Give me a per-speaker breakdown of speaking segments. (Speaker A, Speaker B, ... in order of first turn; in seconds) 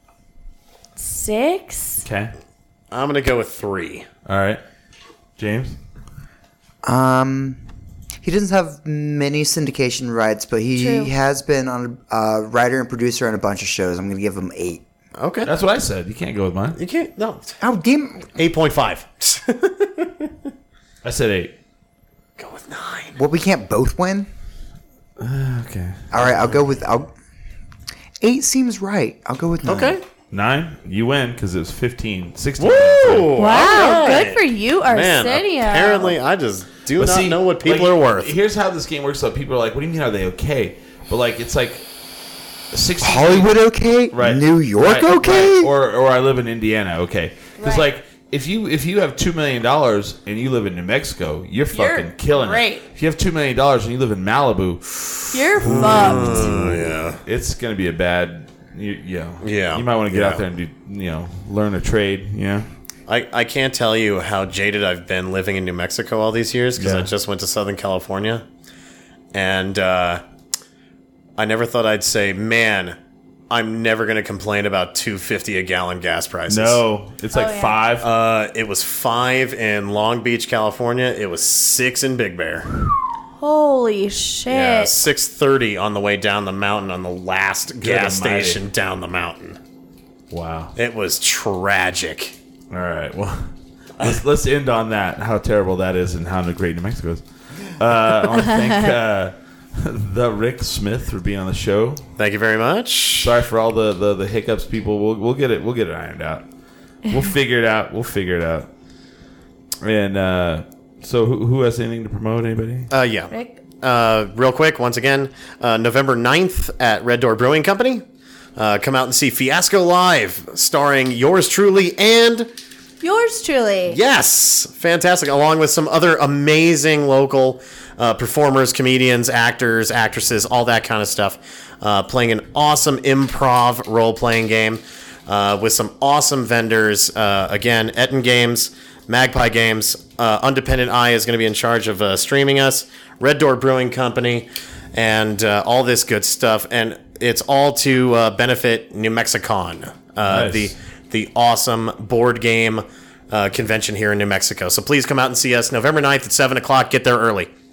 Speaker A: 1.0-2.0, 10.8-11.1, 33.3-36.2, 47.6-47.9, 51.7-52.8, 55.3-56.6, 77.3-77.8, 83.4-84.9, 113.3-113.6, 123.0-124.0
Speaker B: 2.0-2.3, 4.3-4.6, 5.4-5.8, 15.4-16.8, 21.0-21.5, 25.2-26.6, 30.3-34.2, 37.0-41.9, 42.7-43.5, 44.1-62.7, 66.8-67.1, 76.5-78.1, 87.8-88.6, 90.3-90.7, 92.7-102.1, 103.2-106.5, 107.1-108.7, 109.8-112.9, 150.2-150.7
Speaker C: 2.9-4.1, 15.2-15.5, 16.8-17.6, 18.4-20.5, 22.4-23.2, 29.6-30.0, 32.6-38.4, 55.6-57.2, 59.4-60.4, 63.1-68.5, 69.3-70.2, 71.4-73.0, 73.5-76.8, 78.0-82.8, 84.5-89.6, 90.8-92.3, 102.2-103.3, 112.9-118.0, 118.6-122.5, 123.9-157.5
Speaker D: 6.8-7.6, 8.2-14.8, 17.6-18.3, 23.2-24.3, 26.1-27.1, 28.2-30.0, 43.0-45.7